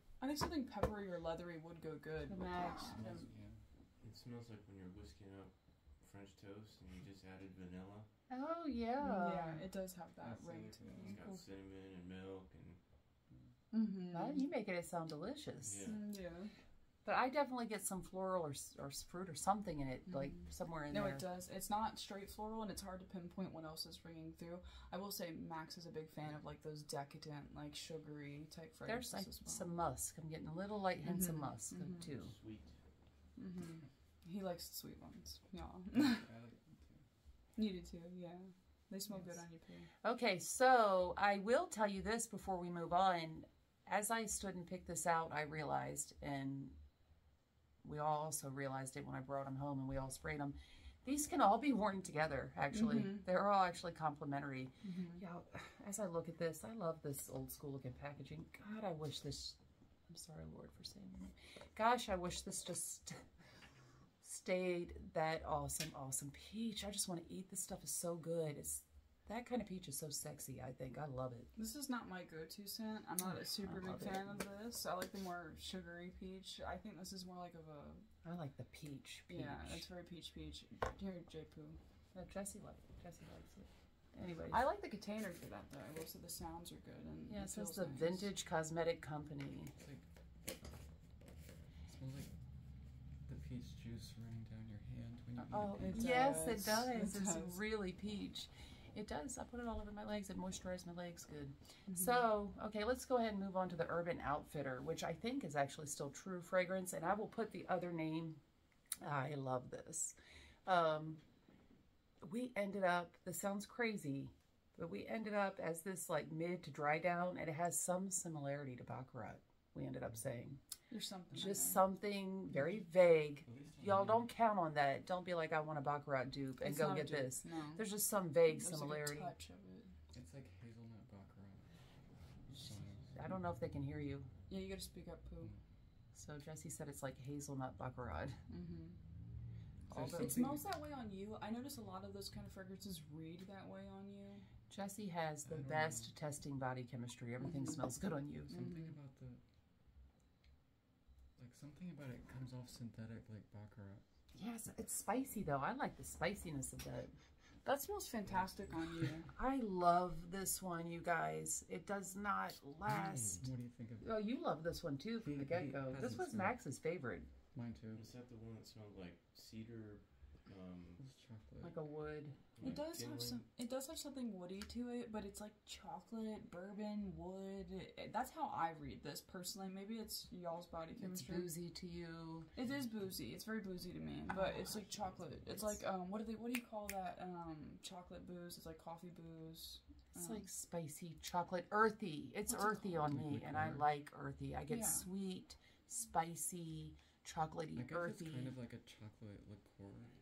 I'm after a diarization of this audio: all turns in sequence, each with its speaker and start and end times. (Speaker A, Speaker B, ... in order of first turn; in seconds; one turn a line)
Speaker A: 0.2-2.5
Speaker B: 2.3-3.2
Speaker C: 2.8-3.6
Speaker D: 4.0-8.1
Speaker B: 8.3-9.6
Speaker A: 9.0-11.0
Speaker C: 10.2-11.2
Speaker D: 11.0-12.8
Speaker A: 13.7-14.4
Speaker B: 14.1-15.9
Speaker D: 15.6-16.0
Speaker A: 15.8-16.5
Speaker B: 17.0-21.2
Speaker A: 20.1-29.7
Speaker B: 28.9-32.3
Speaker A: 31.0-32.0
Speaker D: 32.1-32.7
Speaker A: 33.4-36.2
Speaker C: 35.9-37.0
Speaker A: 37.5-39.9
Speaker B: 40.0-46.7
Speaker B: 47.8-59.6
Speaker A: 52.7-53.2
Speaker A: 54.8-55.2
Speaker B: 60.1-63.2
Speaker B: 64.2-71.5
Speaker A: 71.5-78.0
Speaker B: 73.6-74.3
Speaker B: 78.2-79.8
Speaker A: 79.3-81.8
Speaker B: 82.1-84.6
Speaker A: 84.5-88.3
Speaker B: 87.3-89.7
Speaker C: 89.8-90.0
Speaker C: 91.9-92.3
Speaker C: 93.2-96.0
Speaker B: 95.4-108.4
Speaker A: 95.8-97.6
Speaker A: 101.9-102.2
Speaker B: 109.0-110.1
Speaker B: 110.7-111.2
Speaker B: 112.2-120.6
Speaker A: 120.9-121.8
Speaker B: 121.3-129.3
Speaker C: 123.5-124.3
Speaker A: 126.6-127.8
Speaker A: 128.5-129.9
Speaker C: 130.1-131.8
Speaker C: 132.4-133.2
Speaker B: 133.1-134.3
Speaker A: 134.5-135.5
Speaker B: 136.1-138.4
Speaker A: 138.5-139.0
Speaker C: 139.9-140.6
Speaker B: 139.9-140.6
Speaker A: 140.1-144.4
Speaker B: 144.7-148.6
Speaker C: 145.4-146.1
Speaker A: 147.4-147.8
Speaker C: 148.5-149.4
Speaker A: 148.5-148.9
Speaker C: 151.4-154.0
Speaker B: 154.3-157.1
Speaker A: 157.6-159.3
Speaker C: 158.3-159.1
Speaker B: 159.3-163.5
Speaker D: 162.9-163.4
Speaker C: 163.4-164.1
Speaker B: 164.0-167.3
Speaker C: 165.2-166.5
Speaker C: 167.5-168.1
Speaker D: 167.9-171.0
Speaker C: 171.0-171.8
Speaker B: 171.6-172.4
Speaker D: 172.6-173.4
Speaker A: 172.6-181.5
Speaker B: 181.0-182.5
Speaker A: 182.6-190.4
Speaker B: 184.3-184.8
Speaker B: 190.1-198.5
Speaker A: 192.5-192.8
Speaker C: 193.0-193.8
Speaker A: 194.7-195.0
Speaker C: 197.7-200.1